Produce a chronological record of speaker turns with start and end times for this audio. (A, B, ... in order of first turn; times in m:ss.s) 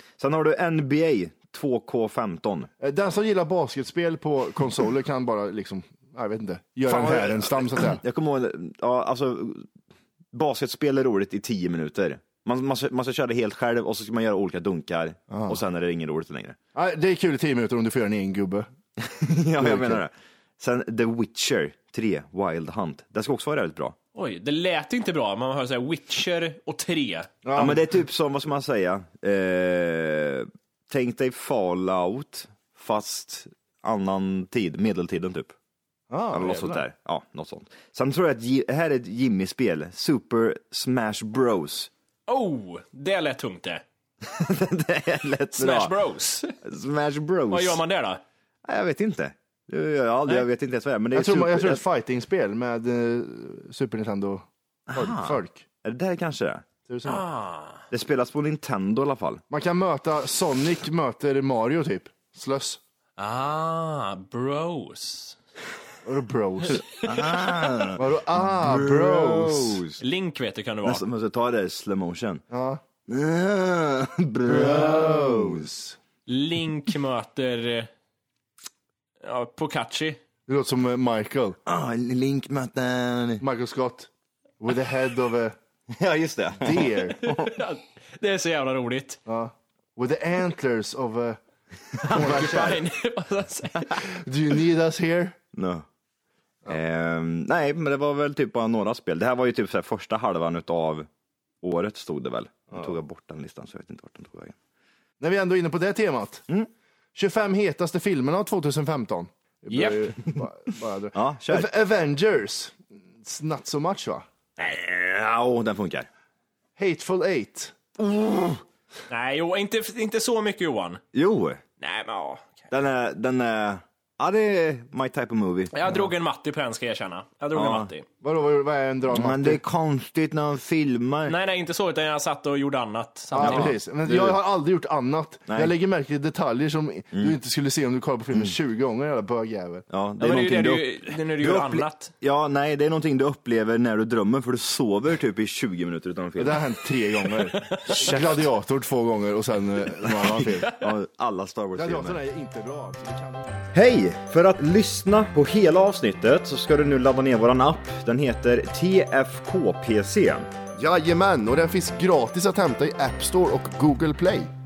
0:00.2-0:02.7 A
0:02.8-0:08.0 B
0:06.8-0:09.7 A
0:10.3-0:16.6 A
0:15.3-0:15.6 B
0:16.7-0:18.7 B
0:19.0-0:24.0 A
0:19.6-0:20.0 B
0:24.1-0:27.8 C
0:27.4-0:27.8 B
0:27.6-0:35.5 A
0:36.1-0:36.8 B
0:36.3-0:41.9 A
0:42.3-0:43.8 C
0:44.2-0:45.9 A
0:45.6-0:46.6 C
0:46.6-0:47.8 A
0:47.5-0:48.2 C
0:48.6-0:51.8 A
0:51.1-0:55.6 B
0:54.9-0:56.6 A
0:56.9-0:57.2 B
0:57.0-0:57.8 C
0:57.9-0:59.4 A
0:59.5-1:02.8 B
1:03.2-1:05.4 C
1:06.0-1:06.8 B
1:06.7-1:10.0 A
1:08.0-1:09.8 B
1:10.0-1:11.0 C
1:10.8-1:12.4 A
1:12.5-1:12.8 B
1:13.1-1:15.7 A
1:14.5-1:15.9 B
1:16.3-1:17.9 C
1:19.2-1:20.2 C
1:20.5-1:21.6 B
1:21.6-1:23.4 A
1:23.4-1:24.1 B
1:24.6-1:25.5 B
1:25.9-1:27.5 A
1:26.6-1:27.3 B
1:27.2-1:29.2 C
1:29.2-1:31.4 B
1:32.0-1:32.8 B
1:32.0-1:32.8 A
1:32.1-1:34.1 C
1:34.0-1:35.4 B
1:35.5-1:35.8 A
1:36.7-1:41.1 A
1:41.6-1:44.6 A
1:45.2-1:46.4 B
1:47.1-1:54.2 B
1:49.7-1:50.0 C
1:51.1-1:51.7 A
1:54.6-1:56.1 A
1:56.8-1:57.8 B
1:58.0-1:58.6 A
1:59.1-2:01.0 C
2:01.1-2:01.6 A
2:01.8-2:02.6 C
2:02.7-2:05.7 A
2:05.7-2:08.0 C
2:07.5-2:07.9 A
2:08.2-2:09.6 B
2:09.1-2:11.4 A
2:11.3-2:13.7 C
2:13.3-2:19.9 B
2:13.4-2:14.4 A
2:15.5-2:15.7 A
2:19.9-2:26.6 A
2:20.2-2:22.1 C
2:26.4-2:30.7 B
2:27.8-2:28.4 A
2:30.0-2:32.2 A
2:31.7-2:33.8 B
2:33.7-2:40.5 A
2:40.8-2:44.5 B